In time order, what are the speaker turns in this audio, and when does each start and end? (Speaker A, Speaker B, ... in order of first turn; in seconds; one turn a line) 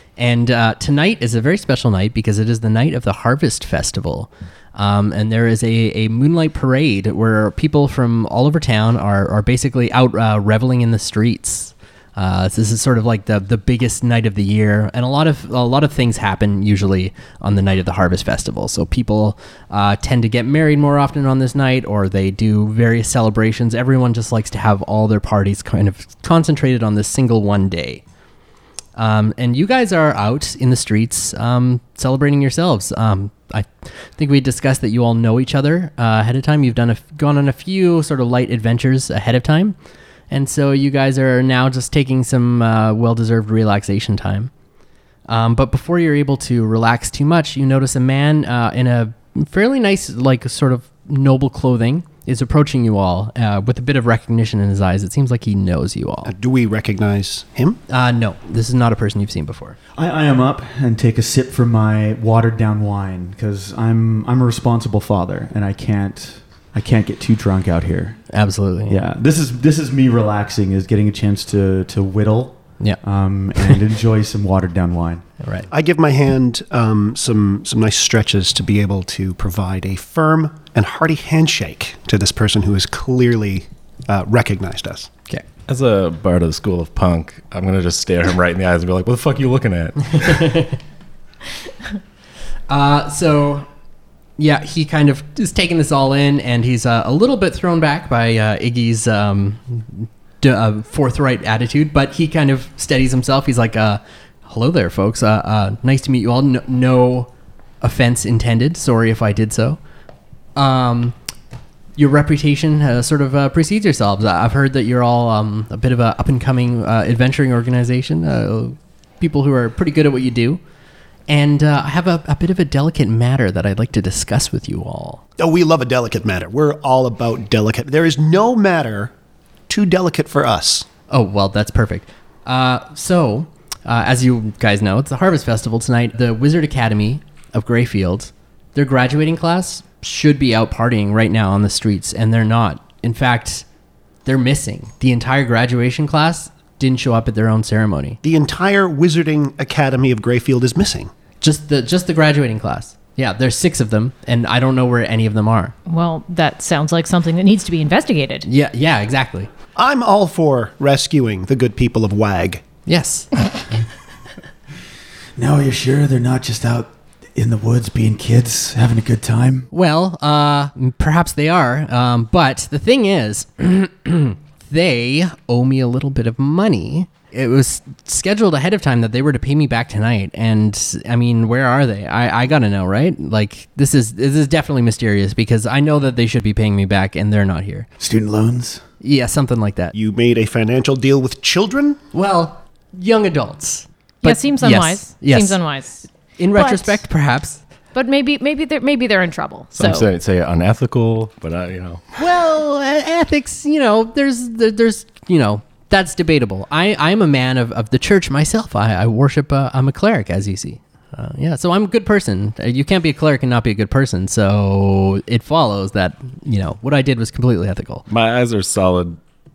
Speaker A: 0.2-28.0
Speaker A: 28.9-39.7
Speaker A: 40.3-44.5
Speaker A: 45.3-56.3
Speaker B: 56.2-57.8
Speaker A: 57.9-59.8
Speaker C: 60.0-68.2
Speaker A: 68.3-69.0
Speaker C: 68.9-75.2
Speaker A: 75.4-75.7
Speaker B: 75.7-85.1
Speaker D: 85.7-90.5
Speaker A: 90.1-90.8
Speaker A: 92.7-93.7
Speaker A: 94.4-109.8
Speaker A: 110.5-111.1
Speaker A: 112.0-120.6
Speaker A: 121.3-125.2
Speaker B: 125.4-129.1
Speaker B: 129.7-130.9
Speaker A: 131.1-143.7
Speaker A: 144.2-148.2
Speaker B: 148.2-151.1
Speaker A: 151.4-155.7
Speaker E: 155.9-158.5
Speaker A: 158.4-159.5
Speaker B: 159.7-162.6
Speaker A: 162.8-163.3
Speaker C: 165.4-169.7
Speaker A: 169.7-187.9
Speaker C: 188.0-188.8
Speaker A: 189.0-189.9
Speaker B: 189.9-192.0
Speaker A: 192.1-195.6
Speaker E: 194.2-197.0
Speaker A: 196.3-197.6
Speaker E: 197.9-200.1
Speaker D: 199.7-202.0
Speaker A: 202.2-218.0
Speaker D: 218.1-219.2